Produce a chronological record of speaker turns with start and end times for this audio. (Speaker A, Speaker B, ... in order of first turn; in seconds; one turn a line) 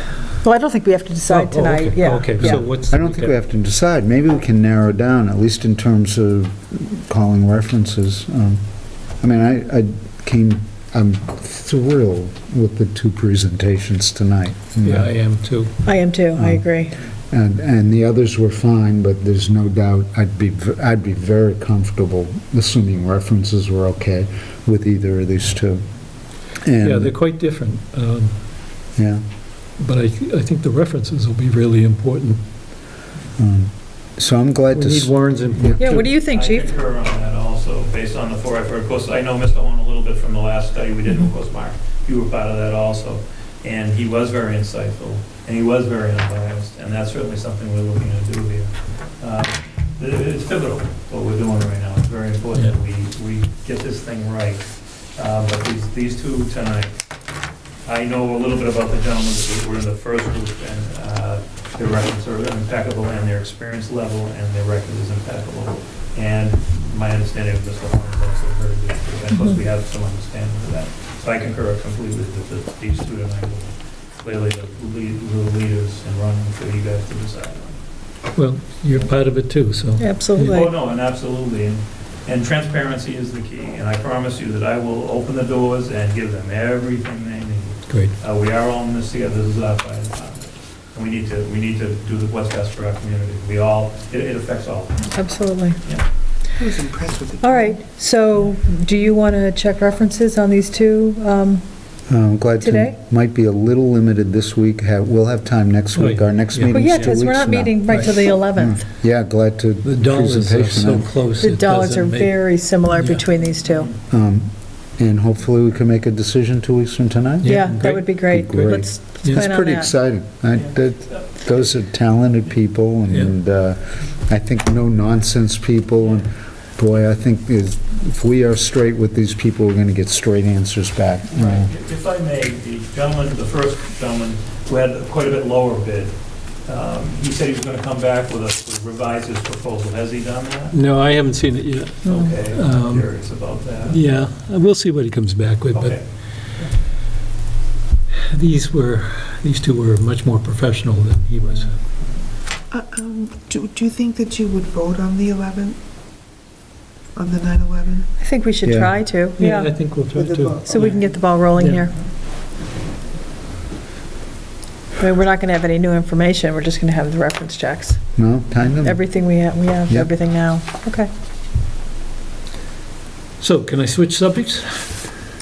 Speaker A: 0.4-2.6
Speaker B: 1.3-3.3
Speaker C: 2.4-15.1
Speaker B: 14.8-15.7
Speaker A: 15.8-17.0
Speaker C: 16.2-27.1
Speaker B: 26.8-28.4
Speaker C: 28.9-29.2
Speaker B: 29.8-32.4
Speaker C: 33.4-35.8
Speaker B: 34.7-36.1
Speaker A: 35.8-36.8
Speaker D: 35.9-56.9
Speaker D: 57.8-77.8
Speaker B: 78.3-80.6
Speaker A: 80.0-80.7
Speaker D: 80.4-95.3
Speaker A: 95.1-95.8
Speaker E: 96.6-97.8
Speaker A: 97.4-101.6
Speaker C: 102.1-111.1
Speaker A: 102.6-102.9
Speaker B: 105.9-107.2
Speaker A: 106.7-108.8
Speaker B: 109.8-113.2
Speaker A: 111.4-113.9
Speaker D: 113.3-114.0
Speaker C: 114.1-131.7
Speaker B: 117.4-118.2
Speaker A: 117.4-119.9
Speaker D: 120.5-121.6
Speaker B: 123.1-123.3
Speaker D: 131.3-140.8
Speaker B: 140.7-143.2
Speaker D: 142.0-144.0
Speaker B: 143.8-146.0
Speaker D: 145.7-146.0
Speaker B: 148.3-151.7
Speaker E: 152.7-155.8
Speaker E: 157.2-158.1
Speaker A: 158.2-159.9
Speaker C: 158.6-159.0
Speaker B: 159.4-161.0
Speaker E: 160.1-161.4
Speaker A: 160.6-161.9
Speaker B: 161.5-161.9
Speaker A: 165.0-168.0
Speaker C: 168.2-169.1
Speaker A: 168.8-171.1
Speaker B: 173.4-174.9